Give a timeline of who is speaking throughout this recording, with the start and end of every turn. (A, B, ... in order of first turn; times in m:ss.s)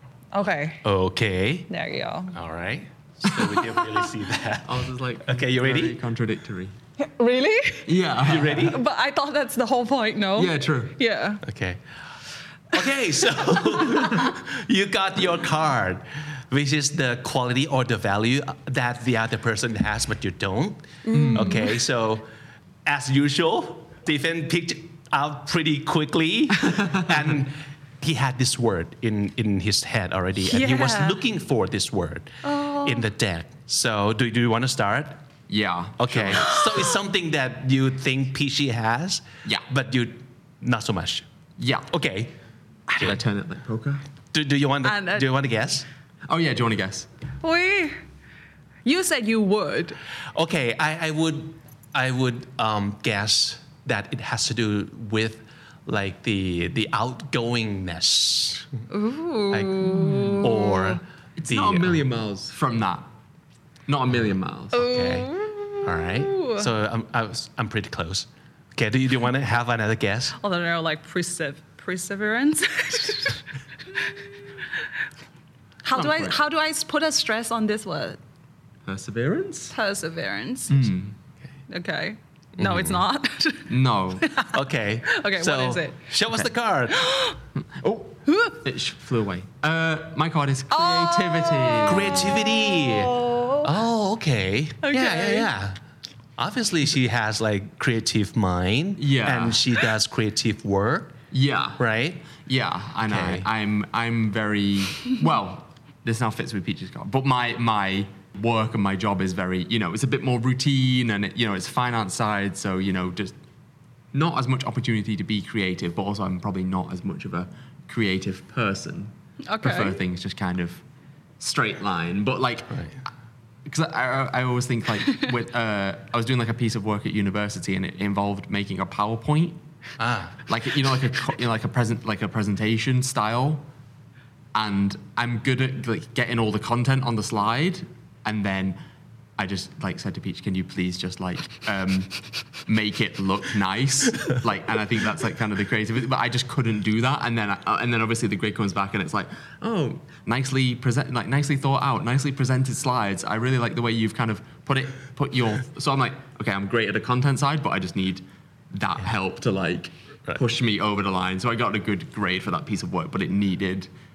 0:00.3-0:00.8 A
0:00.8-0:01.7 B
0:01.7-0:02.4 A
0:02.3-0:06.0 B
0:04.6-0:06.8 C
0:07.0-0:07.9 A
0:07.8-0:08.8 C
0:08.2-0:08.8 B
0:08.6-0:11.4 A
0:10.4-0:11.0 C
0:11.4-0:11.8 B
0:12.7-0:22.3 B
0:21.1-0:21.7 A
0:21.1-0:21.6 C
0:22.8-0:35.2 B
0:26.8-0:27.1 C
0:30.4-0:31.2 A
0:32.4-0:33.0 A
0:35.5-0:36.5 C
0:36.0-0:41.2 B
0:36.5-0:36.8 A
0:41.6-0:41.9 C
0:41.9-0:42.3 B
0:43.0-0:44.0 C
0:44.3-0:45.8 B
0:44.8-0:45.3 A
0:46.3-0:47.1 C
0:47.4-0:48.0 A
0:48.8-0:50.0 A
0:50.3-0:58.7 B
0:58.9-1:01.0 A
0:59.5-1:02.0 B
0:59.9-1:00.5 C
1:01.4-1:03.1 C
1:03.9-1:04.9 C
1:04.7-1:10.4 B
1:04.8-1:06.7 A
1:10.4-1:14.2 A
1:15.8-1:18.2 A
1:15.9-1:16.4 C
1:18.8-1:19.8 C
1:19.7-1:20.9 A
1:20.7-1:21.1 C
1:21.7-1:24.6 A
1:22.6-1:23.0 B
1:23.7-1:24.3 C
1:24.5-1:27.1 B
1:25.1-1:26.0 A
1:26.9-1:27.4 A
1:27.6-1:32.4 C
1:28.3-1:28.6 A
1:30.7-1:33.7 A
1:31.8-1:35.8 B
1:34.8-1:35.5 A
1:36.4-1:41.2 B
1:39.0-1:39.6 C
1:41.3-1:53.4 C
1:41.8-1:42.3 B
1:43.1-1:43.5 B
1:54.1-2:00.8 C
1:59.4-2:00.0 A
2:01.4-2:02.8 C
2:03.6-2:09.6 C
2:10.0-2:10.4 B
2:10.5-2:13.6 C
2:14.5-2:18.8 C
2:19.4-2:22.1 C
2:22.6-2:43.9 C